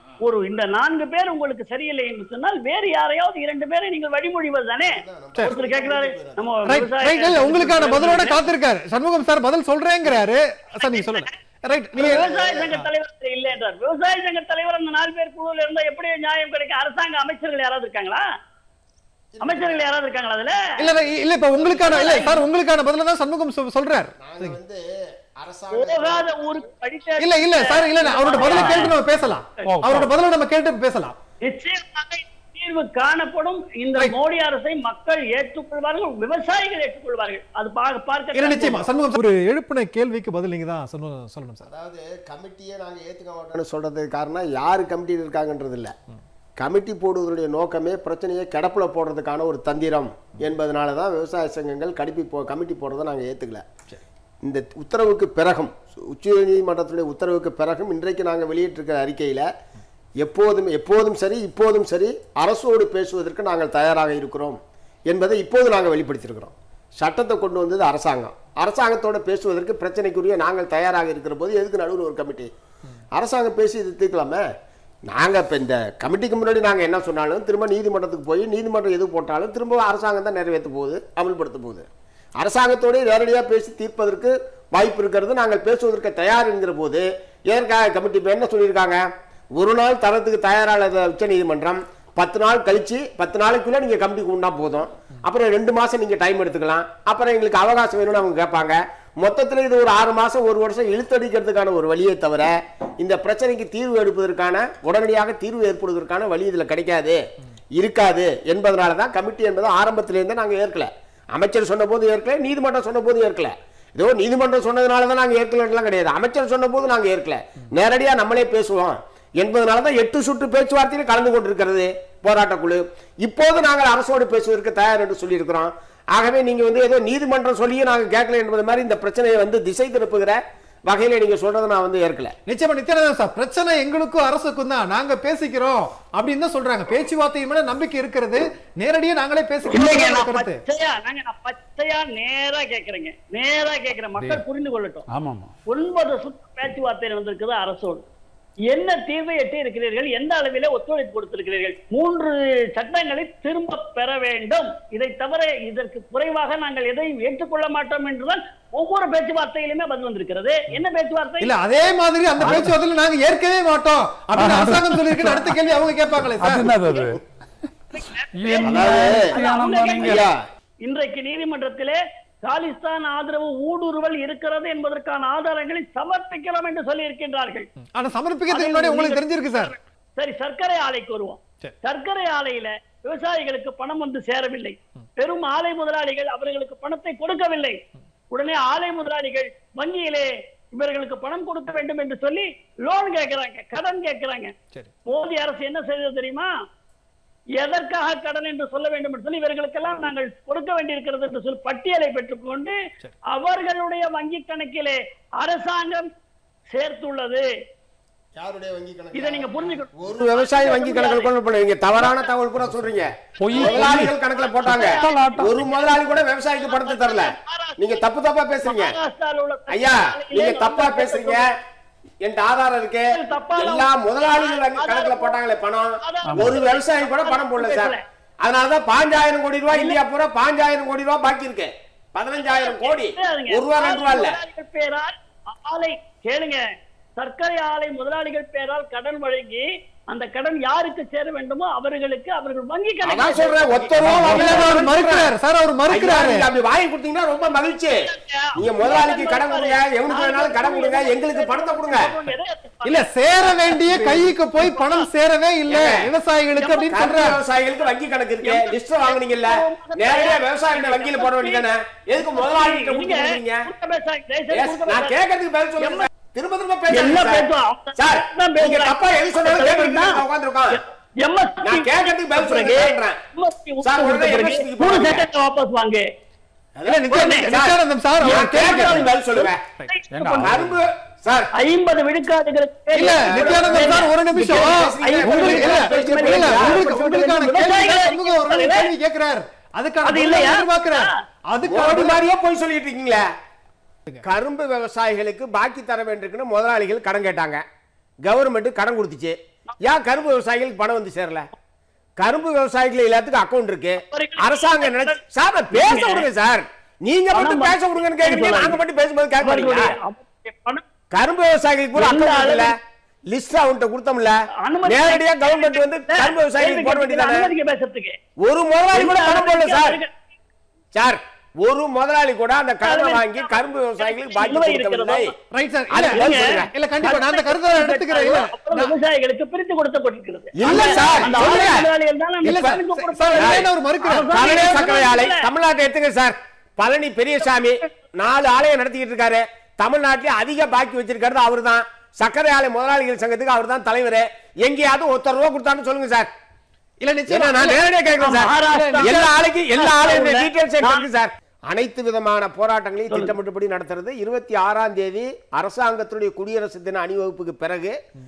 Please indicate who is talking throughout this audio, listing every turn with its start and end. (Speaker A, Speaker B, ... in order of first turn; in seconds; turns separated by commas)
Speaker A: 0.2-8.4, Speaker B: 4.8-6.4, Speaker C: 6.7-12.9, Speaker A: 10.8-11.3, Speaker A: 12.0-18.2, Speaker B: 12.0-12.7, Speaker B: 19.3-19.9, Speaker A: 19.4-20.6, Speaker C: 20.8-24.6, Speaker B: 21.1-22.3, Speaker A: 21.8-22.4, Speaker B: 24.2-24.9, Speaker B: 25.4-26.3, Speaker A: 25.7-29.0, Speaker C: 27.2-31.2, Speaker D: 28.4-28.9, Speaker D: 29.6-30.1, Speaker A: 31.4-38.8, Speaker C: 38.3-41.7, Speaker B: 41.6-45.9, Speaker B: 46.6-53.6, Speaker B: 54.4-59.5, Speaker B: 60.2-64.6, Speaker B: 65.1-72.5, Speaker B: 73.2-74.4, Speaker B: 75.1-81.9, Speaker B: 82.4-89.0, Speaker B: 89.6-107.2, Speaker B: 107.8-132.3, Speaker C: 132.5-140.6, Speaker A: 139.7-145.1, Speaker D: 145.1-145.5, Speaker A: 145.7-148.1, Speaker A: 148.7-161.5, Speaker C: 161.4-166.8, Speaker D: 162.4-162.7, Speaker D: 164.4-165.4, Speaker D: 166.4-167.2, Speaker A: 166.8-167.1, Speaker A: 167.9-170.3, Speaker D: 168.3-170.3, Speaker B: 168.6-169.4, Speaker B: 169.9-170.4, Speaker A: 170.8-177.7, Speaker C: 177.9-179.7, Speaker A: 178.5-187.8, Speaker A: 188.3-196.5, Speaker A: 197.6-202.8, Speaker A: 203.3-206.1, Speaker A: 206.7-207.5, Speaker B: 208.4-218.9, Speaker A: 209.1-211.3, Speaker A: 212.0-212.3, Speaker D: 213.4-214.1, Speaker A: 213.5-216.0, Speaker D: 214.7-215.5, Speaker A: 216.6-218.0, Speaker A: 218.7-221.4, Speaker B: 219.7-221.5, Speaker B: 222.2-234.4, Speaker A: 223.1-225.4, Speaker A: 226.0-228.0, Speaker D: 226.3-226.6, Speaker A: 229.7-230.0, Speaker A: 232.4-236.6, Speaker A: 237.2-244.8, Speaker B: 243.1-245.3, Speaker C: 244.0-246.5, Speaker B: 245.9-252.1, Speaker A: 248.0-255.1, Speaker C: 252.8-257.4, Speaker B: 255.7-256.1, Speaker B: 256.7-263.7, Speaker A: 258.4-261.7, Speaker A: 262.3-265.2, Speaker B: 264.5-270.8, Speaker A: 265.8-266.1, Speaker A: 266.9-276.1, Speaker B: 271.6-273.2, Speaker B: 273.8-275.3, Speaker B: 276.8-279.6, Speaker C: 276.9-279.1, Speaker A: 277.1-277.5, Speaker A: 278.9-280.5, Speaker D: 280.1-280.8, Speaker B: 280.4-281.5, Speaker A: 281.6-284.1, Speaker C: 282.9-292.2, Speaker B: 283.1-287.0, Speaker A: 285.0-288.9, Speaker A: 290.0-291.1, Speaker B: 291.6-293.3, Speaker B: 294.2-297.6, Speaker B: 298.2-301.5, Speaker B: 302.2-309.9, Speaker A: 304.0-305.2, Speaker A: 305.7-306.3, Speaker A: 307.3-308.8, Speaker A: 309.4-310.8, Speaker B: 311.1-312.7, Speaker A: 312.0-312.7, Speaker B: 313.3-317.5, Speaker A: 314.6-318.1, Speaker B: 318.4-320.0, Speaker A: 318.9-320.1, Speaker B: 320.9-325.3, Speaker A: 322.8-325.3, Speaker C: 325.5-328.9, Speaker B: 325.9-326.7, Speaker A: 326.1-335.5, Speaker B: 330.6-331.8, Speaker C: 330.6-331.6, Speaker C: 332.4-334.6, Speaker B: 332.5-332.8, Speaker B: 333.4-333.6, Speaker B: 334.3-346.3, Speaker C: 347.0-347.8, Speaker B: 347.3-357.9, Speaker A: 348.2-351.1, Speaker C: 348.5-349.3